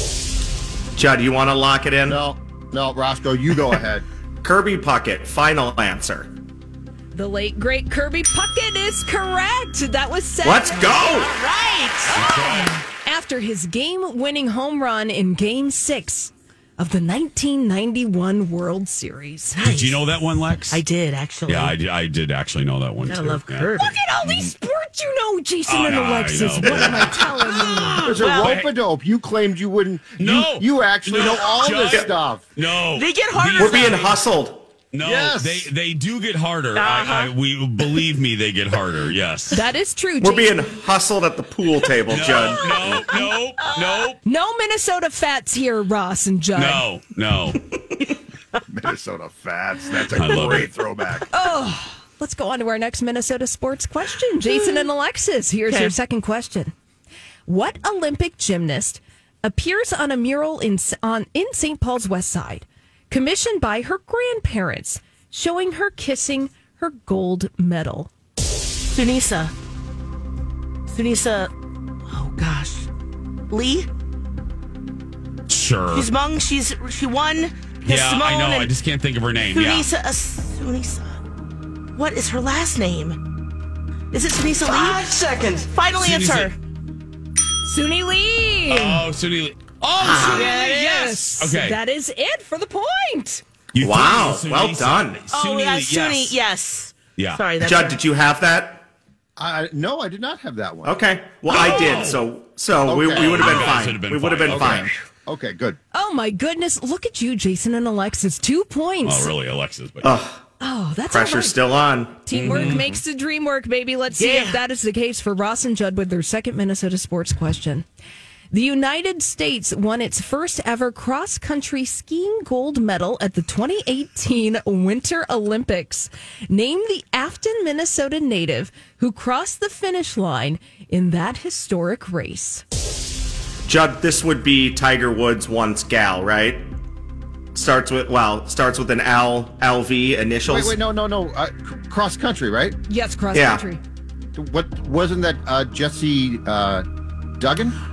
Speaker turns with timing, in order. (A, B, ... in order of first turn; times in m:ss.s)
0:00.9-0:02.2 A
0:02.1-0:04.0 B
0:04.4-0:06.3 A
0:07.1-0:11.1 C
0:10.4-0:11.3 A
0:10.8-0:12.6 D
0:12.1-0:19.6 C
0:12.1-0:12.8 E
0:19.6-0:20.0 D
0:19.6-0:20.8 E
0:20.7-0:21.7 D
0:21.5-0:23.7 E
0:23.0-0:24.0 D
0:23.8-0:28.1 C
0:24.2-0:24.5 E
0:25.7-0:27.1 E
0:27.6-0:28.6 D
0:28.0-0:32.4 B
0:28.2-0:28.7 E
0:30.2-0:34.2 E
0:31.2-0:32.1 A
0:32.9-0:34.1 D
0:33.6-0:34.7 A
0:34.9-0:39.6 E
0:35.0-0:35.7 B
0:36.7-0:37.3 D
0:39.5-0:40.7 C
0:40.2-0:42.9 A
0:42.1-0:44.2 E
0:43.2-0:44.1 D
0:44.2-0:46.8 C
0:46.5-0:47.6 E
0:48.7-0:51.3 B
0:50.1-0:50.7 E
0:51.3-0:56.7 C
0:55.7-0:55.9 D
0:57.5-1:08.1 C
1:08.9-1:09.5 D
1:10.9-1:11.5 D
1:12.1-1:12.9 D
1:13.5-1:13.9 D
1:15.5-1:16.1 E
1:15.9-1:18.7 D
1:17.8-1:19.9 E
1:19.5-1:21.2 D
1:22.0-1:23.2 D
1:24.1-1:26.6 D
1:25.9-1:26.5 E
1:27.6-1:29.0 C
1:28.7-1:30.5 E
1:30.1-1:31.2 D
1:30.1-1:33.4 C
1:31.4-1:31.8 E
1:33.7-1:36.4 E
1:33.8-1:35.2 A
1:35.3-1:38.0 D
1:37.2-1:37.4 E
1:37.6-1:38.8 A
1:39.4-1:41.0 B
1:40.8-1:44.9 A
1:41.5-1:42.2 E
1:42.8-1:43.8 B
1:43.1-1:44.9 E
1:44.5-1:45.8 B
1:45.9-1:49.3 C
1:49.0-1:50.1 E
1:50.0-1:50.4 A
1:50.6-1:51.6 C
1:51.1-1:52.2 A
1:52.2-1:57.8 C
1:52.3-1:52.9 E
1:54.2-1:54.6 D
1:58.5-2:12.6 C
2:13.6-2:16.7 A
2:17.5-2:20.8 A
2:20.4-2:22.8 B
2:22.9-2:23.8 C
2:23.3-2:23.6 A
2:24.3-2:26.8 B
2:27.4-2:27.8 B